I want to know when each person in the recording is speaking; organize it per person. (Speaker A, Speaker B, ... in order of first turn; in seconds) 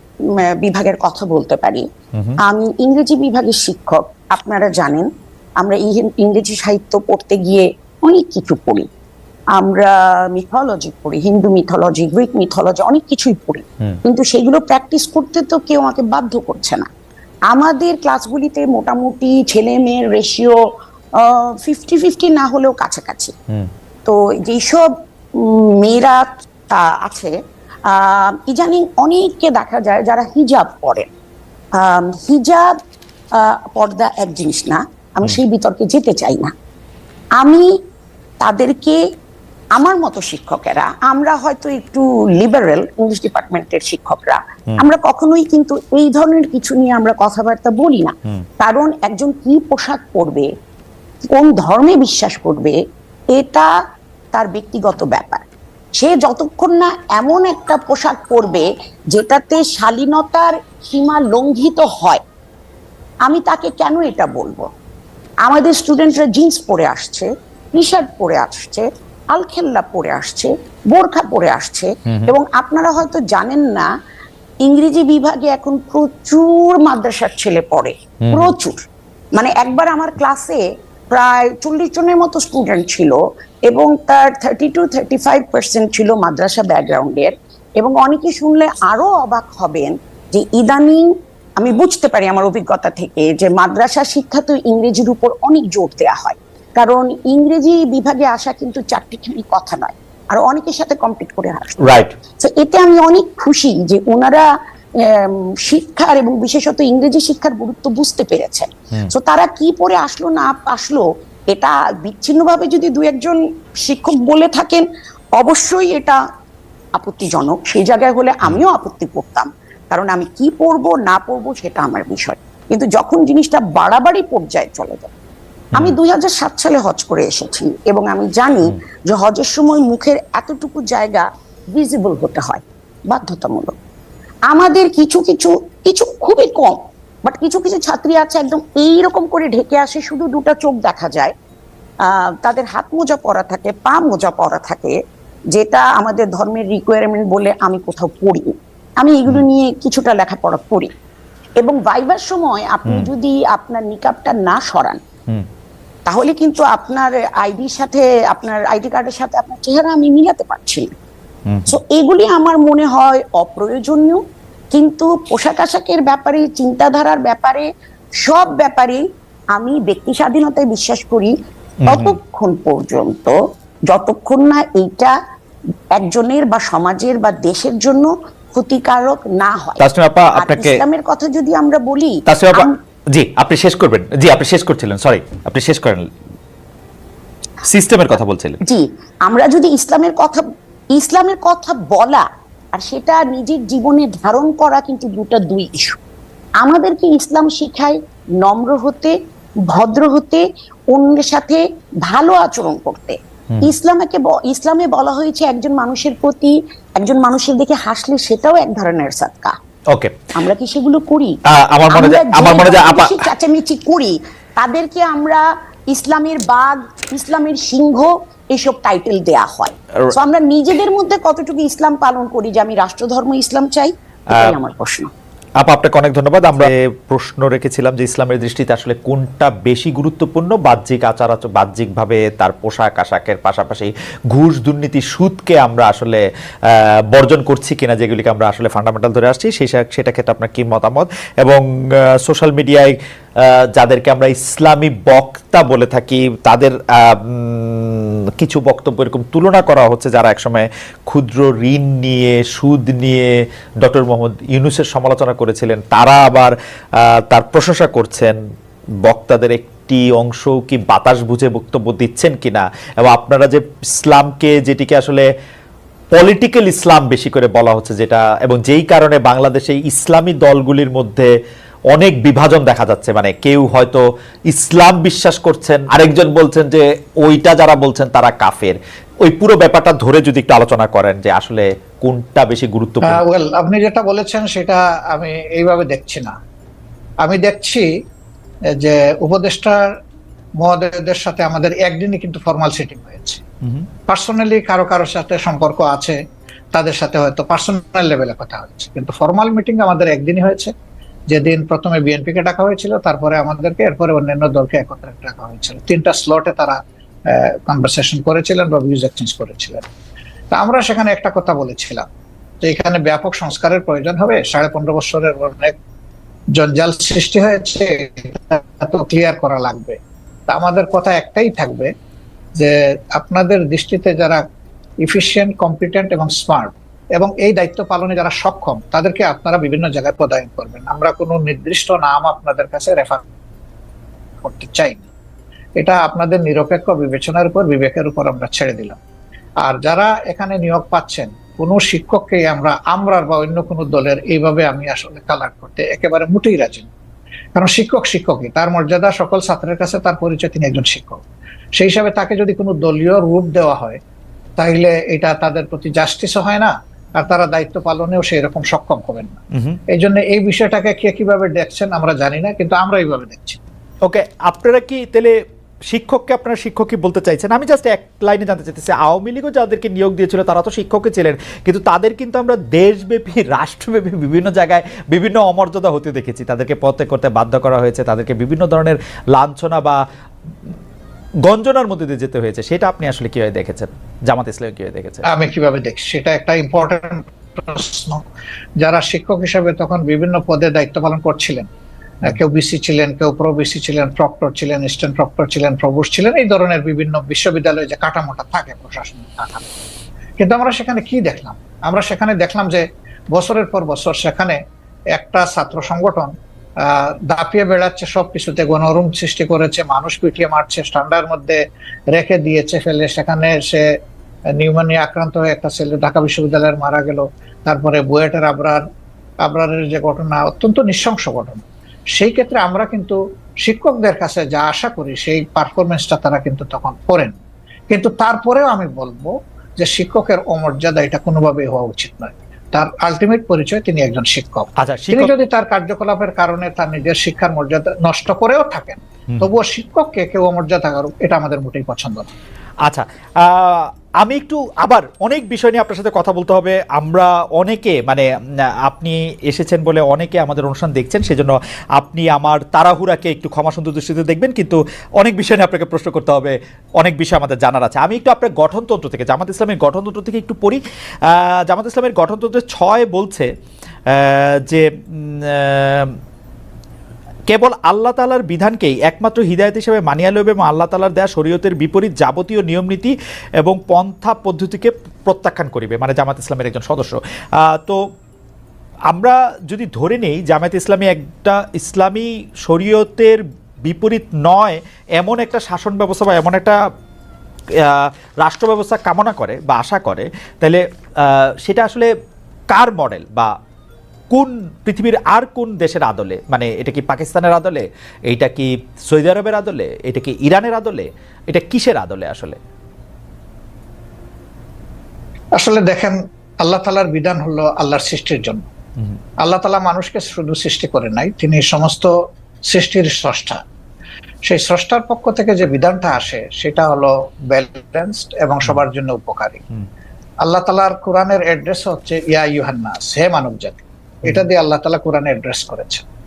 Speaker A: 0.3-1.9, 2.4-5.1, 5.6-8.9, 9.6-16.9, 17.5-20.6, 21.2-23.3, 24.1-27.4, 27.9-31.1, 31.8-32.8, 33.4-36.5, 37.4-37.7, 38.4-39.0, 39.8-50.5, 51.2-52.8, 53.3-53.7, 54.3-55.5, 56.0-62.2, 63.3-64.7, 65.4-73.9, 74.6-78.8, 79.3-114.9, 115.4-116.2, 117.0-125.1, 125.8-133.8, 134.5-141.3, 142.1-145.0, 145.5-150.9, 151.6-155.0, 156.1-160.9, 161.7-164.2, 164.7-167.7, 168.2-169.0, 169.5-171.3, 171.9-173.4, 173.9-175.2, 175.9-179.8, 180.3-182.8, 188.7-196.0, 196.6-199.2, 199.7-209.6, 210.3-211.3, 211.9-225.1
Speaker B: 2.1-2.4, 72.1-72.3, 78.2-78.5, 101.8-102.1, 161.5-161.8, 171.8-172.2, 179.8-180.8, 182.3-186.1, 187.6-188.6, 211.5-213.3, 225.6-241.6, 242.2-258.4, 259.0-265.2, 266.1-271.3, 271.9-283.2, 359.5-359.8, 364.1-365.4, 365.9-380.0, 381.4-385.2, 434.8-435.3, 442.9-448.3, 448.9-463.5, 464.1-466.2, 467.5-478.0, 479.1-486.8, 487.8-492.1, 492.7-493.5, 494.3-502.6
Speaker C: 283.0-286.3, 287.2-287.9, 288.8-289.9, 290.6-293.4, 294.1-296.2, 296.7-300.7, 301.3-309.9, 310.5-312.1, 312.6-315.8, 316.6-320.0, 320.5-321.9, 322.6-324.4, 325.0-333.2, 334.4-335.0, 335.8-339.0, 339.6-346.9, 347.6-351.2, 351.8-354.0, 354.6-359.4, 359.9-363.6, 385.3-388.2, 388.8-391.7, 392.2-399.7, 400.4-404.6, 405.1-413.9, 414.6-418.8, 419.4-427.4, 427.9-442.3, 505.6-508.7, 509.4-512.1, 512.7-513.6, 514.5-519.6, 520.4-526.0